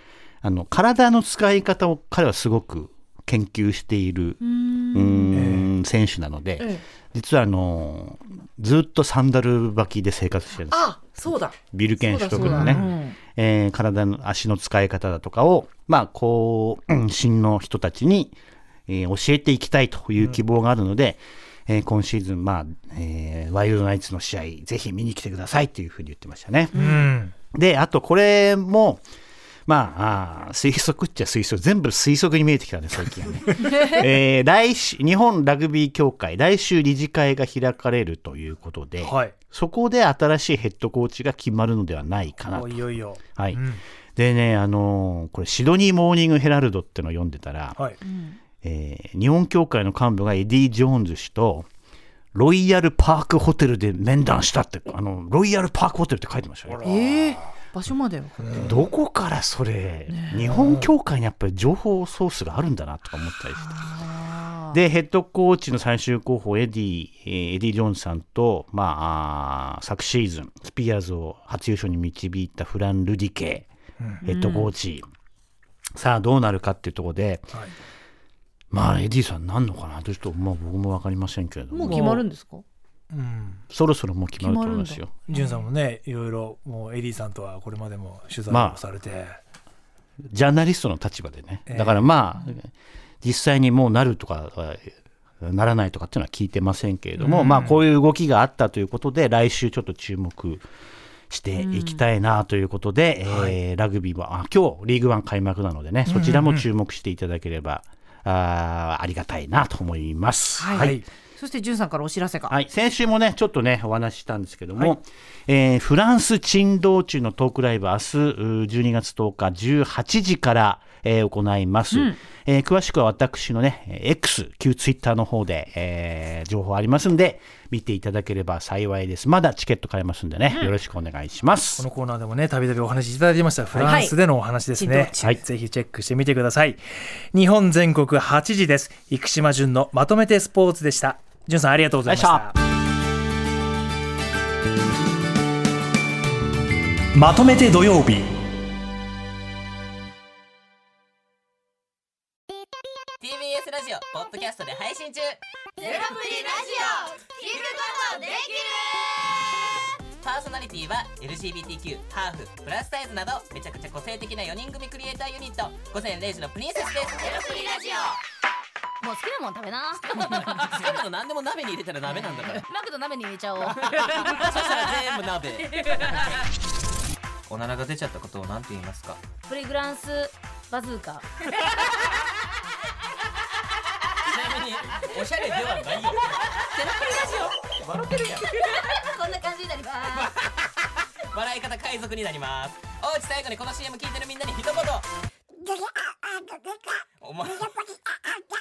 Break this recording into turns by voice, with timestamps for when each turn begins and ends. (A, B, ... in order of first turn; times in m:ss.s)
0:00.4-0:04.4 A
0:04.4-0:05.4 B
0:04.9-0:10.8 A
0:05.3-0:05.7 C
0:10.7-0:13.2 B
0:11.7-0:18.4 A
0:12.3-0:13.0 C
0:18.9-0:26.8 A
0:26.7-0:27.1 B
0:26.7-0:27.3 C
0:27.5-0:29.0 A
0:29.7-0:42.8 A
0:39.0-0:39.3 C
0:42.5-0:43.8 C
0:43.4-0:43.6 A
0:44.2-0:47.8 A
0:48.0-0:48.4 B
0:48.6-0:51.7 A
0:52.3-0:56.8 A
0:56.7-0:57.2 C
0:56.8-0:58.7 B
0:58.4-0:58.7 C
0:58.5-1:03.9 A
1:00.1-1:00.5 B
1:00.6-1:00.9 C
1:03.6-1:04.8 B
1:04.7-1:13.7 A
1:14.2-1:14.7 B
1:14.2-1:15.1 A
1:16.0-1:17.5 A
1:18.7-1:22.2 A
1:21.7-1:22.6 B
1:23.1-1:23.6 C
1:23.7-1:25.1 A
1:24.4-1:25.6 B
1:25.3-1:29.4 C
1:28.5-1:28.8 A
1:30.3-1:32.7 A
1:31.7-1:32.1 C
1:33.2-1:40.6 A
1:37.2-1:37.8 C
1:41.3-1:51.0 A
1:41.6-1:42.0 B
1:43.3-1:43.6 C
1:46.1-1:46.7 C
1:50.6-1:52.5 B
1:50.7-1:51.0 C
1:52.5-2:11.8 A
2:01.9-2:02.2 B
2:11.8-2:22.5 C
2:13.8-2:14.2 B
2:14.8-2:15.4 B
2:15.2-2:15.4 A
2:22.1-2:22.5 A
2:27.1-2:28.4 C
2:33.2-2:35.4 D
2:35.8-2:39.1 E
2:35.9-2:38.3 D
2:40.2-2:48.2 D
2:47.3-2:47.9 E
2:49.0-2:50.9 E
2:50.2-2:52.6 D
2:52.6-2:54.5 E
2:53.6-2:56.4 D
2:55.8-2:56.1 E
2:57.5-2:59.3 D
2:59.4-3:01.3 E
3:04.2-3:08.9 D
3:08.6-3:10.3 E
3:11.2-3:15.1 D
3:17.2-3:18.0 D